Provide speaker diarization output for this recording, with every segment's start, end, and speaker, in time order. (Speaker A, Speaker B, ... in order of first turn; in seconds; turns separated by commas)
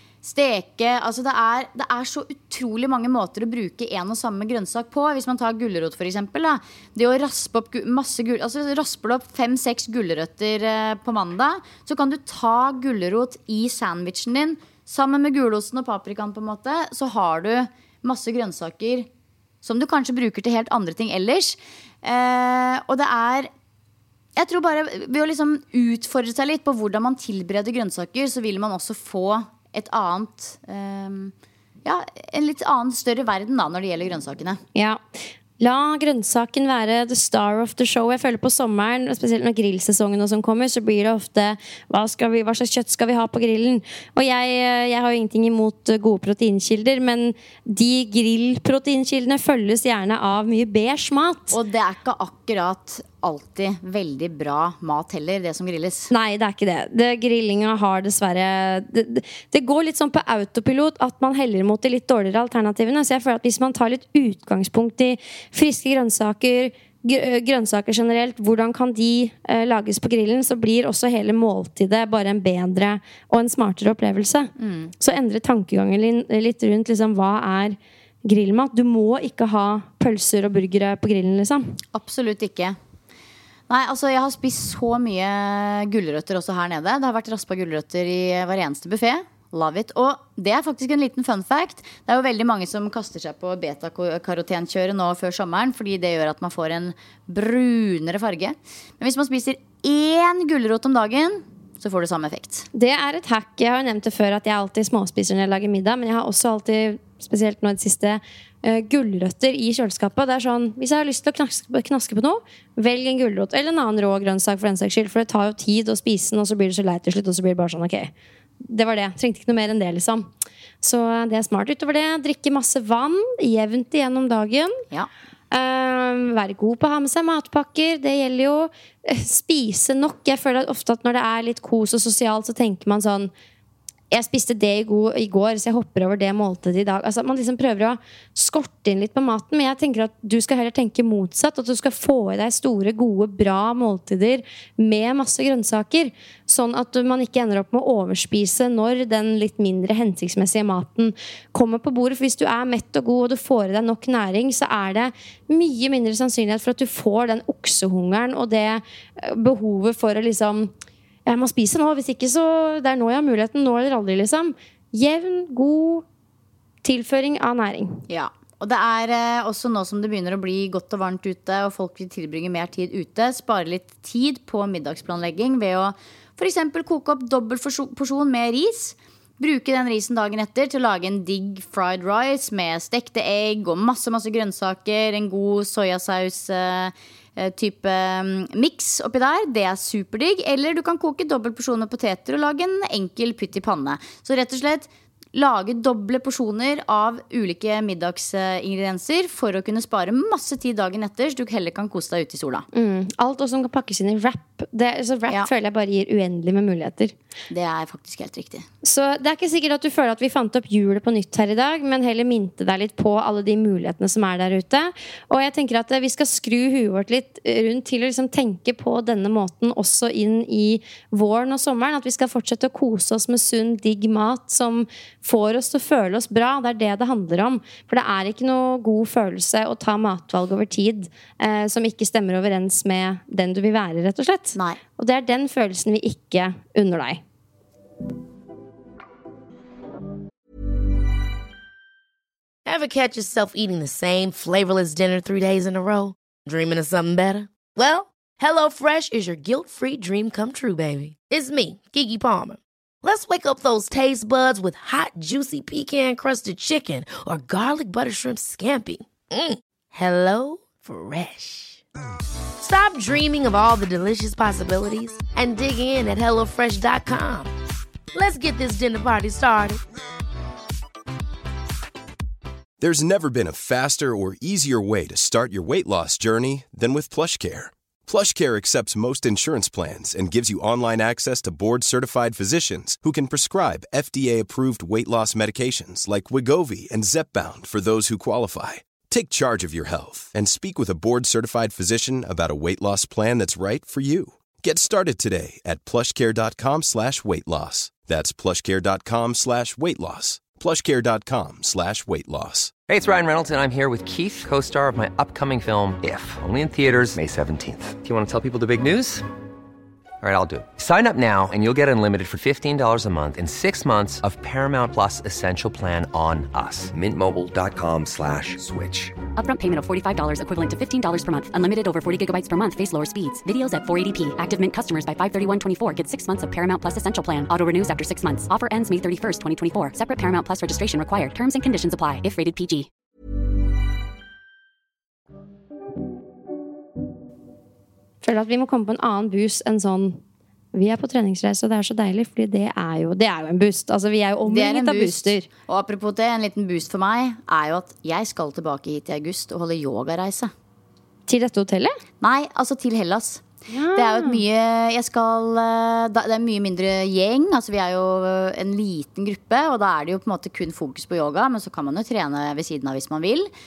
Speaker A: 0.2-19.1, Speaker A: 19.6-23.5, Speaker A: 24.4-31.3, Speaker A: 31.8-34.6, Speaker B: 34.7-35.0, Speaker B: 35.6-51.5, Speaker A: 51.5-56.1, Speaker B: 56.1-81.8, Speaker A: 74.6-74.9, Speaker A: 81.9-82.8, Speaker A: 83.7-102.7, Speaker B: 102.7-120.3, Speaker B: 120.8-124.8, Speaker B: 125.5-133.3, Speaker B: 134.1-160.7, Speaker B: 161.2-166.0, Speaker B: 166.8-168.0, Speaker A: 168.1-202.7, Speaker B: 202.7-207.1, Speaker A: 207.5-208.7, Speaker B: 208.8-237.2, Speaker C: 242.7-261.8, Speaker C: 262.6-267.5, Speaker C: 268.1-269.8, Speaker D: 272.8-302.7, Speaker E: 302.9-309.2, Speaker E: 310.2-319.1, Speaker F: 319.4-332.9, Speaker B: 338.2-340.2, Speaker B: 340.7-345.5, Speaker A: 344.5-350.5, Speaker B: 351.3-351.9, Speaker A: 352.2-363.5, Speaker B: 353.7-354.4